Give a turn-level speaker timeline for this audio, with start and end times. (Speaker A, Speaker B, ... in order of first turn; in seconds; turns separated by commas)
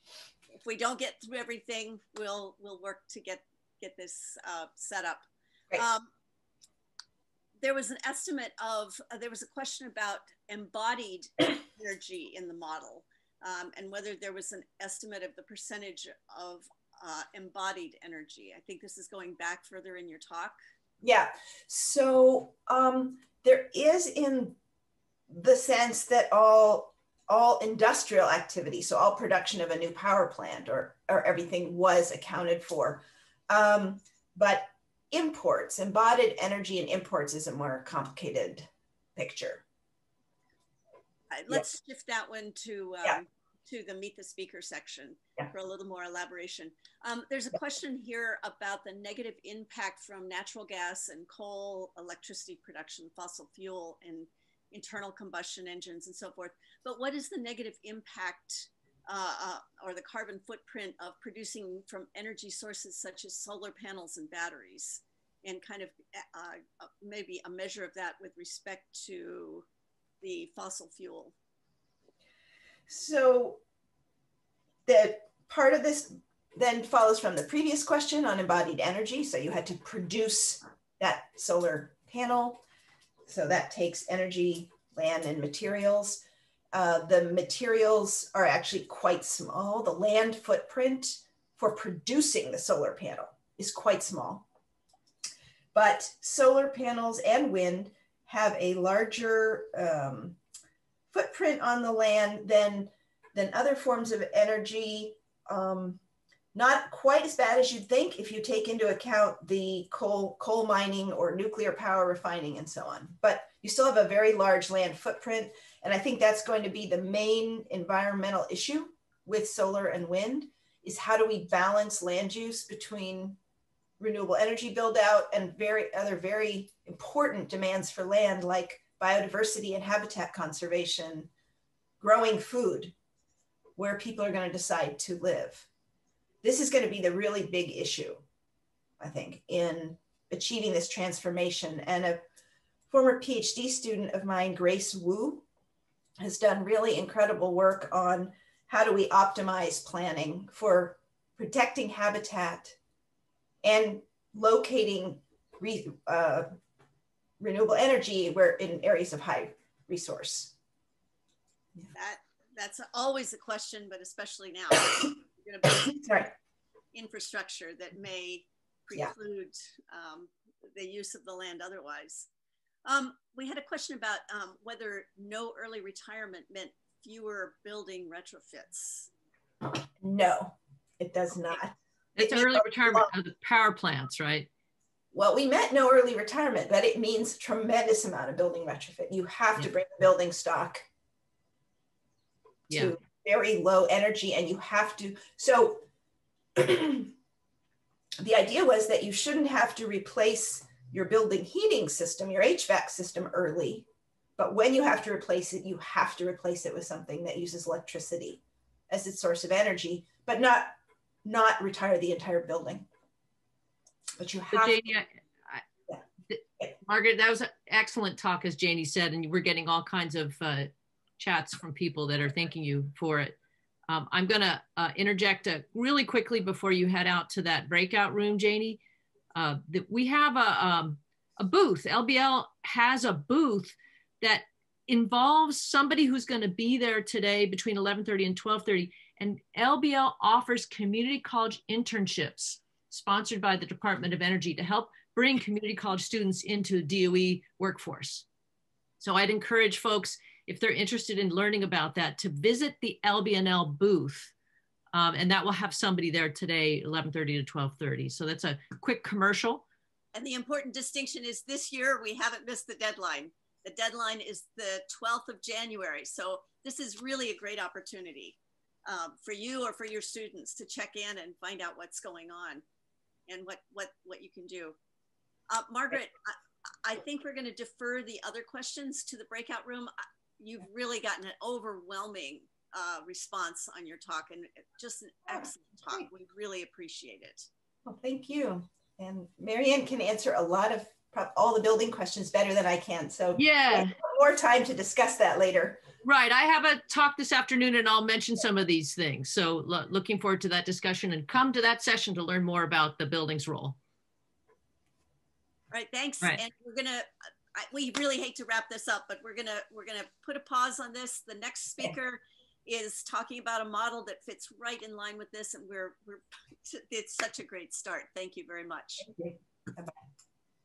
Speaker A: 0.6-6.1, Speaker A: 7.6-20.6, Speaker B: 21.0-24.6, Speaker B: 25.3-39.6, Speaker A: 41.3-69.7, Speaker A: 70.2-71.3, Speaker B: 72.9-73.6, Speaker B: 74.8-82.6, Speaker B: 83.2-94.5, Speaker B: 95.7-100.4, Speaker B: 101.1-106.0, Speaker B: 106.5-123.4, Speaker B: 124.0-131.3, Speaker B: 132.0-132.9, Speaker B: 133.8-135.7, Speaker B: 136.4-138.2, Speaker B: 139.0-142.2, Speaker B: 142.9-145.4, Speaker B: 146.2-152.8, Speaker B: 153.6-156.5, Speaker B: 157.4-160.5, Speaker A: 161.9-165.9, Speaker B: 165.7-166.3, Speaker A: 166.9-172.3, Speaker A: 172.8-179.1, Speaker B: 180.0-183.1, Speaker C: 182.2-184.5, Speaker B: 185.1-190.8, Speaker B: 192.7-195.8, Speaker B: 196.6-197.1, Speaker B: 198.2-212.9, Speaker B: 214.2-214.9, Speaker C: 214.5-215.6, Speaker C: 216.3-223.3, Speaker C: 223.9-228.8, Speaker C: 229.3-248.2, Speaker C: 249.0-254.3, Speaker C: 254.9-259.6, Speaker A: 260.1-272.6, Speaker A: 273.3-274.8, Speaker A: 275.5-287.5, Speaker B: 285.3-286.1, Speaker B: 287.8-295.8, Speaker C: 293.3-293.9, Speaker C: 296.0-303.8, Speaker A: 305.7-319.1, Speaker B: 319.0-319.9